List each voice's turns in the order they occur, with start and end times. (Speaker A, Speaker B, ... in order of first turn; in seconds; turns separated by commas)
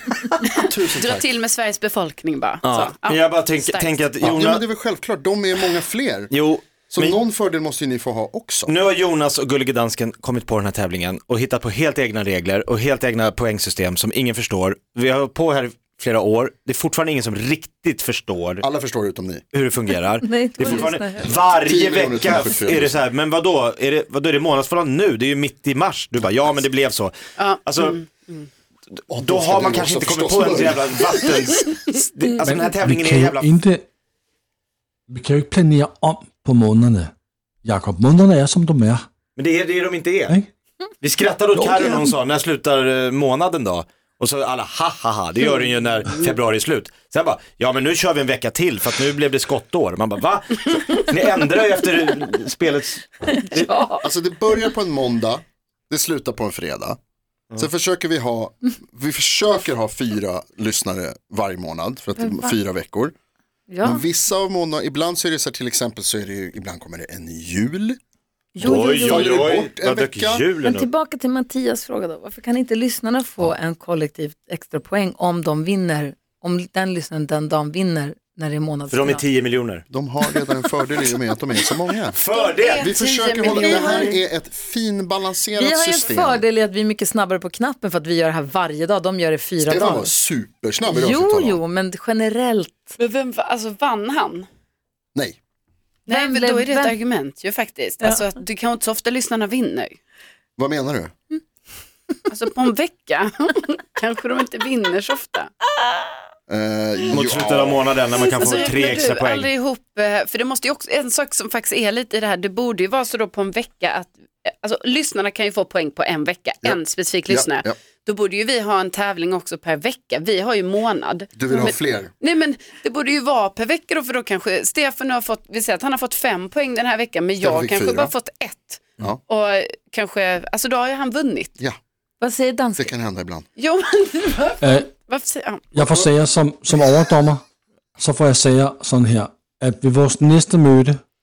Speaker A: 0.5-4.1, Speaker B: 0.6-1.3, Speaker C: 2.6-4.6, Speaker B: 4.2-6.3, Speaker C: 6.3-7.2, Speaker B: 6.9-8.7, Speaker C: 8.7-18.6, Speaker B: 18.6-19.4, Speaker C: 19.5-28.0, Speaker D: 20.2-21.4, Speaker B: 21.5-23.0, Speaker A: 27.4-28.5, Speaker B: 29.1-31.6, Speaker C: 29.1-33.5, Speaker E: 32.4-33.8, Speaker E: 35.1-37.1, Speaker E: 37.6-39.0, Speaker C: 39.4-40.3, Speaker C: 41.0-53.7, Speaker E: 41.5-41.9, Speaker D: 53.7-54.0, Speaker B: 54.0-57.0, Speaker B: 57.6-63.1, Speaker D: 62.2-62.5, Speaker D: 63.7-64.0, Speaker B: 63.8-68.0, Speaker D: 68.5-69.5, Speaker B: 68.6-70.5, Speaker C: 68.6-70.9, Speaker D: 70.6-79.2, Speaker C: 78.9-79.8, Speaker B: 79.9-82.2, Speaker C: 82.1-82.9, Speaker A: 82.3-84.2, Speaker B: 82.8-86.4, Speaker D: 83.5-84.2, Speaker D: 85.5-90.1, Speaker B: 89.6-91.6, Speaker D: 90.9-93.0, Speaker A: 93.0-94.5, Speaker A: 96.1-100.0, Speaker D: 96.1-96.9, Speaker B: 100.6-101.1, Speaker A: 102.3-105.5, Speaker B: 106.5-107.8, Speaker C: 107.1-109.5, Speaker A: 108.2-131.5, Speaker B: 116.6-117.7, Speaker B: 121.3-122.1, Speaker B: 127.4-128.1, Speaker D: 132.2-132.9, Speaker B: 132.8-133.5, Speaker A: 133.6-135.8, Speaker E: 134.6-134.9, Speaker E: 135.7-137.4, Speaker E: 138.0-141.0